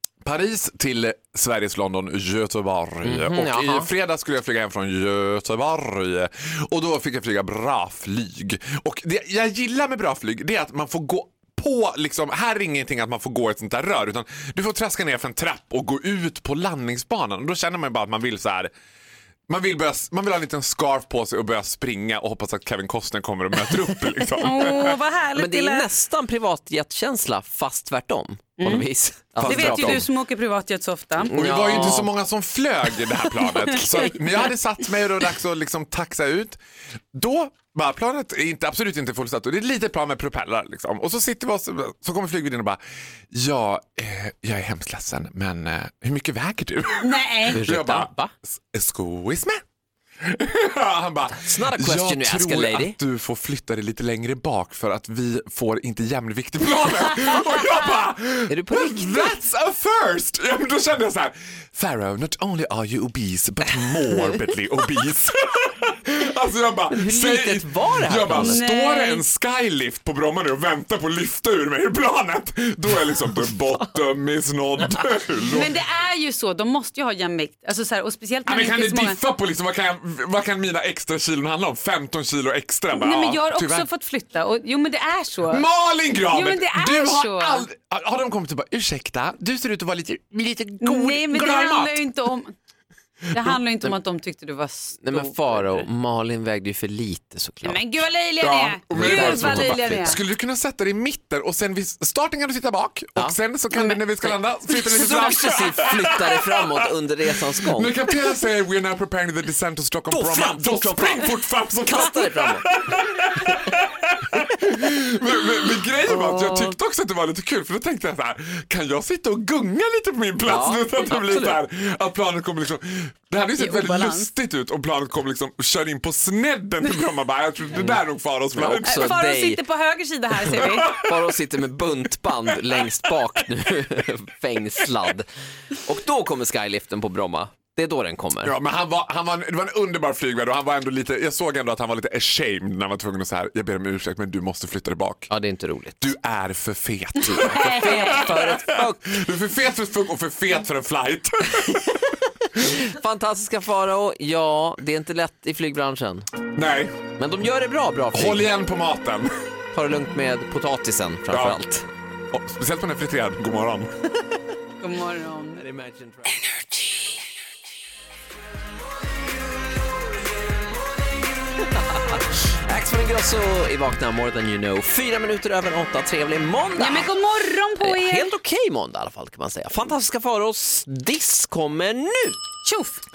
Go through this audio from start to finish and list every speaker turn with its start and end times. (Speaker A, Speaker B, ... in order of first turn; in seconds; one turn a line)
Speaker A: 0.2-18.7
Speaker B: 3.0-3.9
Speaker A: 19.5-25.0
Speaker C: 24.4-25.9
Speaker B: 25.3-30.1
Speaker C: 28.6-28.8
Speaker A: 29.4-30.1
Speaker C: 29.4-31.3
Speaker B: 31.2-32.1
Speaker A: 31.3-36.6
Speaker C: 33.3-33.9
Speaker A: 37.1-42.8
Speaker A: 43.3-49.6
Speaker C: 47.0-47.6
Speaker B: 47.5-48.3
Speaker A: 50.2-75.7
Speaker B: 51.3-53.0
Speaker B: 58.5-59.4
Speaker B: 66.9-68.6
Speaker C: 68.3-69.2
Speaker C: 75.5-79.2
Speaker A: 78.5-83.9
Speaker C: 82.9-85.7
Speaker A: 85.5-92.0
Speaker C: 86.3-87.7
Speaker C: 90.8-92.5
Speaker A: 93.3-93.6
Speaker C: 93.3-95.8
Speaker B: 95.0-97.9
Speaker C: 97.6-100.2
Speaker A: 98.4-106.9
Speaker B: 98.9-100.2
Speaker B: 103.2-108.0
Speaker A: 107.7-129.2
Speaker B: 110.1-111.3
Speaker B: 111.8-112.7
Speaker C: 116.1-116.7
Speaker B: 120.4-121.6
Speaker C: 123.6-124.3
Speaker B: 127.7-128.0
Speaker B: 128.5-129.6
Speaker C: 128.8-130.9
Speaker A: 130.5-131.1
Speaker B: 130.9-138.5
Speaker A: 138.4-145.3
Speaker B: 145.3-146.0
Speaker A: 146.0-152.0
Speaker C: 147.2-148.3
Speaker B: 147.4-149.2
Speaker B: 152.5-156.3
Speaker A: 156.5-157.0
Speaker B: 157.2-158.4
Speaker A: 158.1-159.3
Speaker B: 159.7-161.8
Speaker A: 161.3-161.6
Speaker A: 162.3-163.9
Speaker C: 164.8-165.6
Speaker B: 165.6-166.5
Speaker B: 171.7-177.1
Speaker C: 176.8-178.3
Speaker B: 177.8-182.4
Speaker C: 182.6-183.0